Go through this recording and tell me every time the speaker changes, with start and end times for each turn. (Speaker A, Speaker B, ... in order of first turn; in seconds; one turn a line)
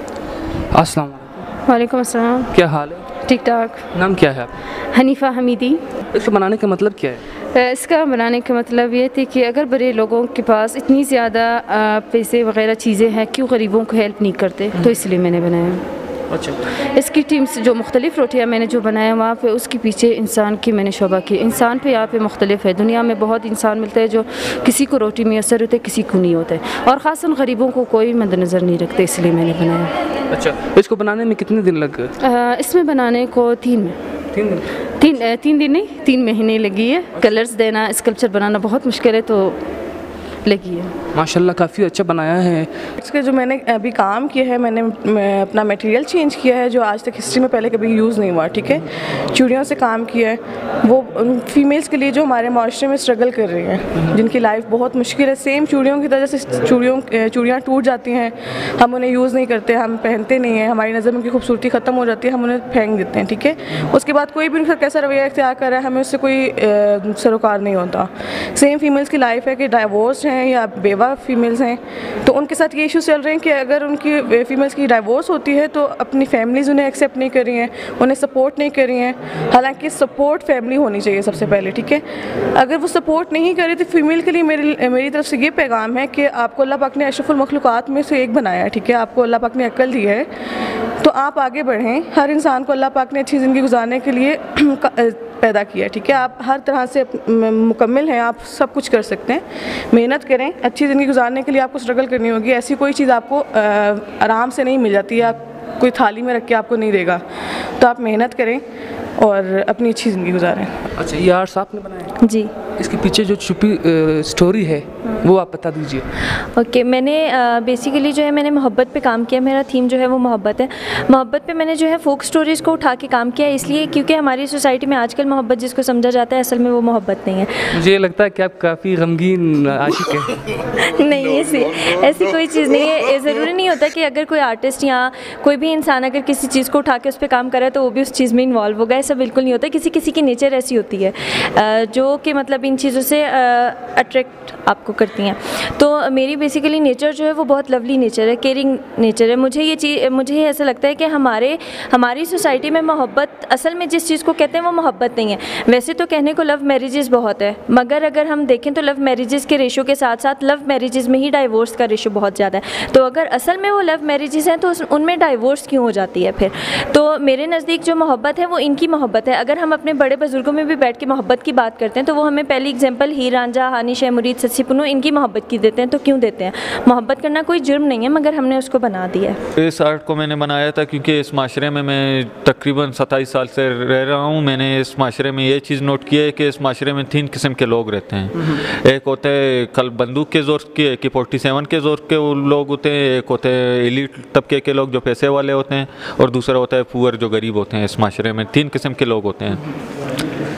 Speaker A: 0.7-1.4
Speaker B: 1.6-2.5
Speaker A: 2.5-3.1
Speaker B: 3.2-3.8
Speaker A: 3.9-4.5
Speaker B: 4.9-5.8
Speaker A: 6.1-7.2
Speaker B: 7.5-15.8
Speaker B: 16.9-29.9
Speaker A: 30.3-32.1
Speaker B: 32.2-34.0
Speaker A: 34.3-34.6
Speaker B: 35.0-39.6
Speaker B: 40.4-40.9
Speaker A: 41.1-42.7
Speaker C: 43.0-82.0
Speaker C: 82.5-90.3
Speaker C: 91.0-107.2
Speaker C: 107.8-108.6
Speaker C: 109.2-110.7
Speaker A: 111.0-112.1
Speaker D: 112.2-112.5
Speaker A: 112.8-116.1
Speaker D: 116.5-127.5
Speaker A: 127.7-130.4
Speaker D: 130.8-179.4
Speaker E: 179.6-199.6